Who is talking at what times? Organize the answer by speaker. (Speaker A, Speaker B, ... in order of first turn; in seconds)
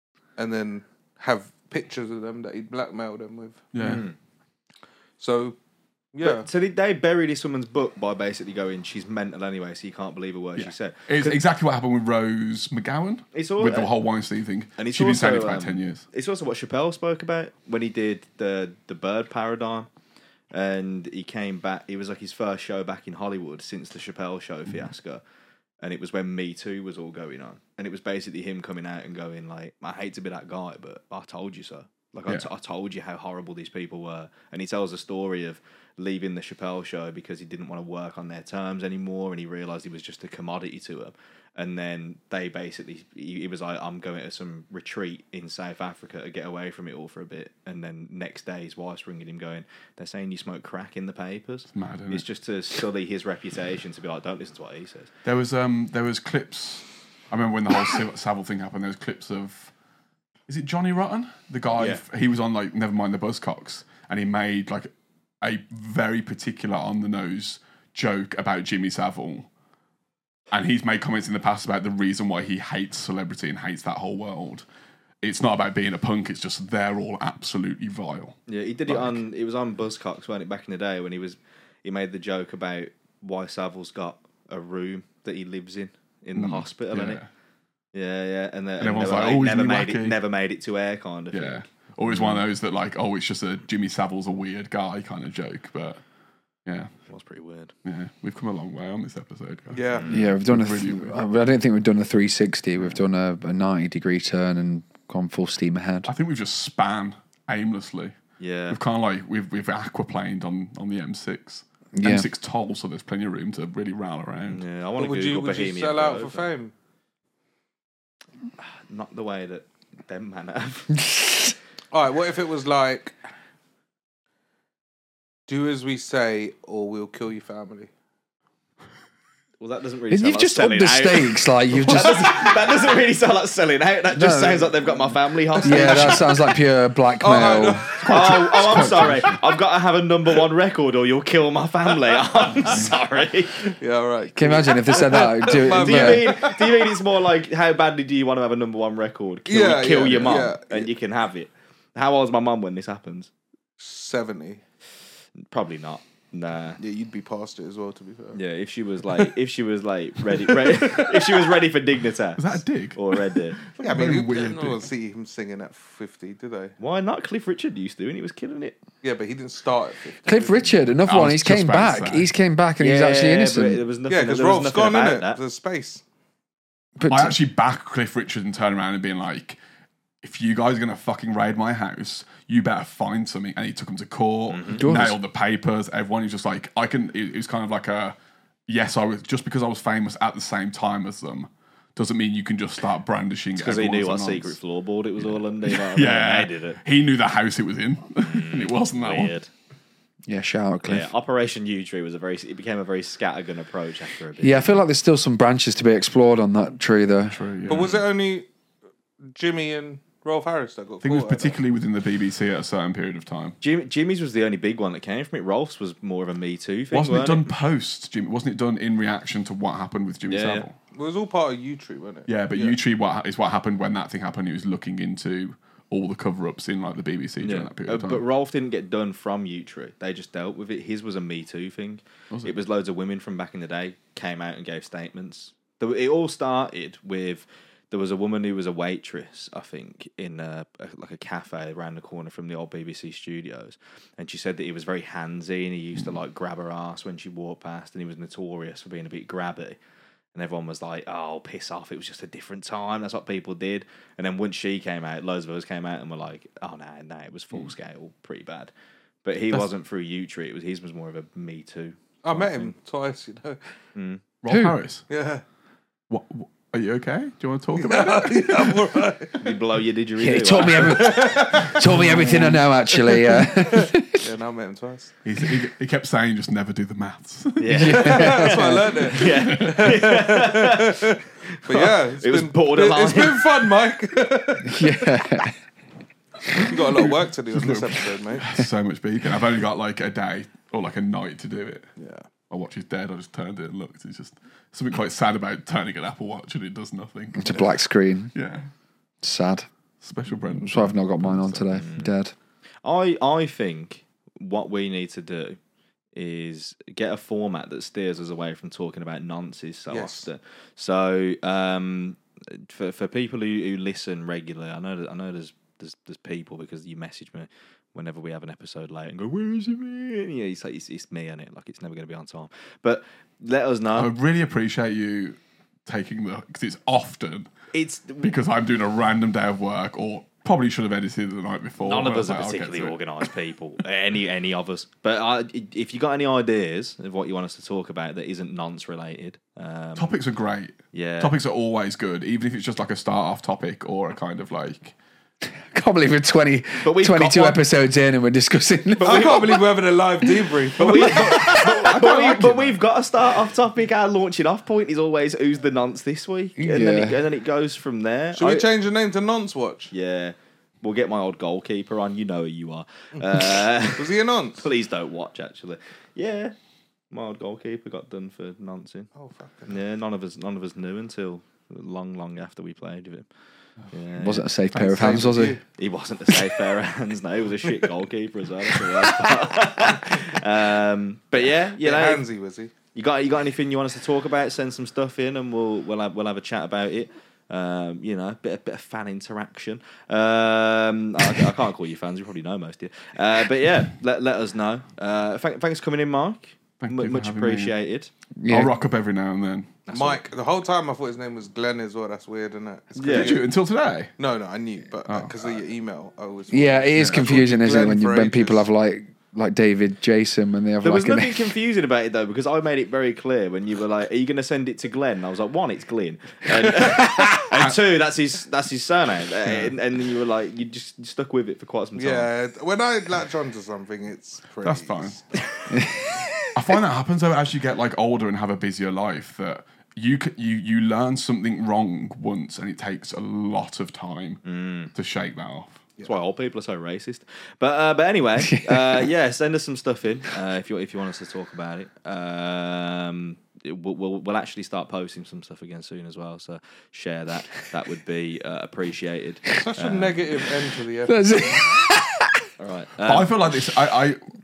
Speaker A: 0.4-3.7, 5.2-5.6, 6.1-6.5, 99.7-100.1, 115.0-116.7, 121.9-123.2, 125.5-127.9, 135.6-136.5, 137.2-138.8, 143.7-146.8, 149.5-150.9, 153.8-154.6, 156.8-158.4, 163.8-166.8, 169.0-170.8, 174.1-176.0, 207.7-208.5, 209.3-211.6, 220.9-222.8, 262.2-263.6, 265.1-265.4, 267.8-269.4, 270.9-275.1, 277.9-285.2, 286.6-288.5, 292.0-292.3, 309.9-310.3, 349.0-351.5, 358.4-359.9, 363.2-364.6, 369.2-369.8, 375.0-375.6, 381.4-382.7, 399.9-403.5, 404.2-408.7, 422.0-425.2, 449.6-451.2
Speaker B: 3.7-4.1, 10.6-16.1, 51.7-52.3, 55.2-59.7, 60.5-69.5, 70.5-74.7, 75.2-79.2, 86.3-87.3, 88.8-90.2, 91.3-96.0, 96.7-96.9, 97.8-101.2, 106.1-108.2, 108.7-114.6, 138.0-139.4, 162.4-164.8, 171.1-172.3, 177.1-179.6, 180.2-188.2, 188.7-194.6, 195.2-199.3, 207.3-208.0, 211.0-213.6, 216.9-220.8, 222.3-228.2, 232.3-232.6, 264.4-265.0, 266.1-268.8, 271.8-272.6, 275.2-277.8, 279.3-280.0, 286.6-291.9, 292.5-297.8, 298.3-298.7, 300.0-301.7, 323.9-327.5, 328.2-333.0, 340.0-344.9, 350.9-352.8, 374.7-375.5, 396.8-397.8, 398.5-399.8, 403.1-404.1, 405.1-405.3, 406.9-407.3, 417.5-417.8, 419.5-419.7, 424.6-425.2, 426.5-435.8, 453.1-454.2
Speaker C: 3.8-4.2, 6.2-11.4, 13.3-13.9, 14.8-19.9, 20.5-25.2, 25.8-55.1, 61.8-62.0, 78.5-87.2, 87.9-92.5, 97.1-97.7, 99.9-100.3, 108.4-108.8, 114.5-116.5, 118.6-121.0, 129.6-136.4, 138.0-143.7, 145.4-153.3, 155.4-156.8, 158.3-163.6, 166.8-168.8, 172.8-175.4, 184.5-184.8, 193.6-196.8, 198.2-199.5, 200.8-204.8, 213.6-217.5, 220.3-220.7, 227.4-249.8, 250.3-258.7, 259.2-262.7, 264.0-264.2, 269.4-271.2, 277.6-278.5, 279.1-283.5, 301.7-302.1, 302.8-305.6, 306.1-324.1, 327.7-328.3, 331.8-340.2, 340.9-341.4, 346.8-347.6, 349.0-349.4, 350.8-358.7, 359.9-366.5, 367.1-369.1, 369.7-373.3, 373.9-374.5, 375.1-382.2, 382.9-398.1, 399.9-400.3, 402.9-403.4, 410.8-422.3, 434.4-434.9, 436.0-450.2, 452.6-453.4
Speaker D: 100.1-106.1, 112.0-112.3, 130.1-132.2, 134.2-134.7, 135.6-137.9, 144.4-146.3, 170.3-173.8, 177.0-177.4, 184.8-185.2, 200.3-201.1, 204.4-207.4, 264.5-264.8, 270.2-274.2, 277.7-279.1, 284.6-285.6, 297.4-298.3, 299.2-299.7, 300.5-302.3, 345.7-349.6, 356.6-357.2, 374.2-375.6, 398.4-398.7, 406.5-411.5, 425.7-426.1, 438.4-439.0, 451.1-452.4